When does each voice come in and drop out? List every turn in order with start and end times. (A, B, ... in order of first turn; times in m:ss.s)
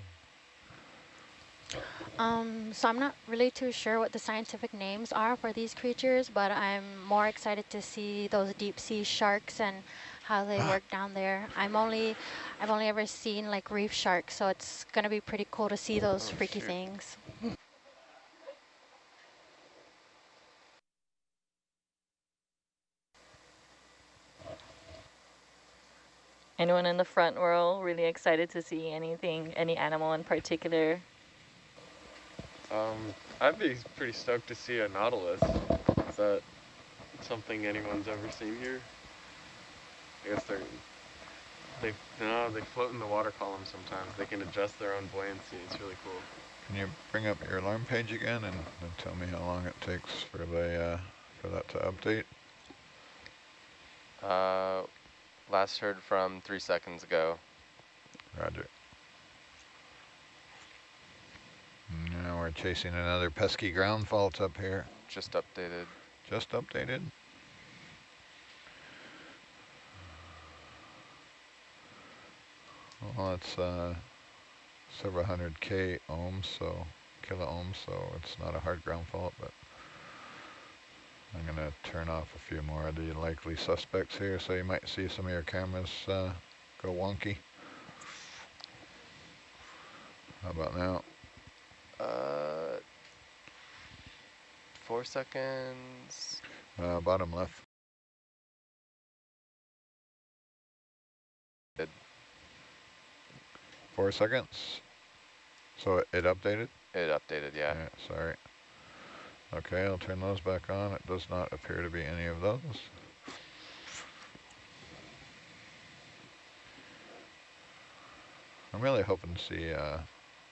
0:02.2-0:17.5 A
0:16.2-0:16.7 B
0:26.6-0:31.0 C
0:32.7-0:36.4 D
0:37.1-0:38.9 D
0:40.2-0:40.8 D
0:41.8-0:46.3 D
0:46.6-0:52.3 E
0:54.2-0:54.9 B
0:55.5-0:57.4 B
0:58.3-0:58.7 E
1:01.9-1:04.9 E
1:05.1-1:05.9 B
1:06.2-1:07.1 E
1:13.0-1:14.2 E
1:14.9-1:20.2 E
1:21.3-1:27.9 E
1:30.4-1:31.1 E
1:32.0-1:32.8 B
1:34.7-1:36.4 B
1:36.8-1:37.6 E
1:43.9-1:44.8 E
1:45.8-1:46.9 E
1:46.9-1:47.8 B
1:47.7-1:53.2 E
1:58.7-2:00.2 E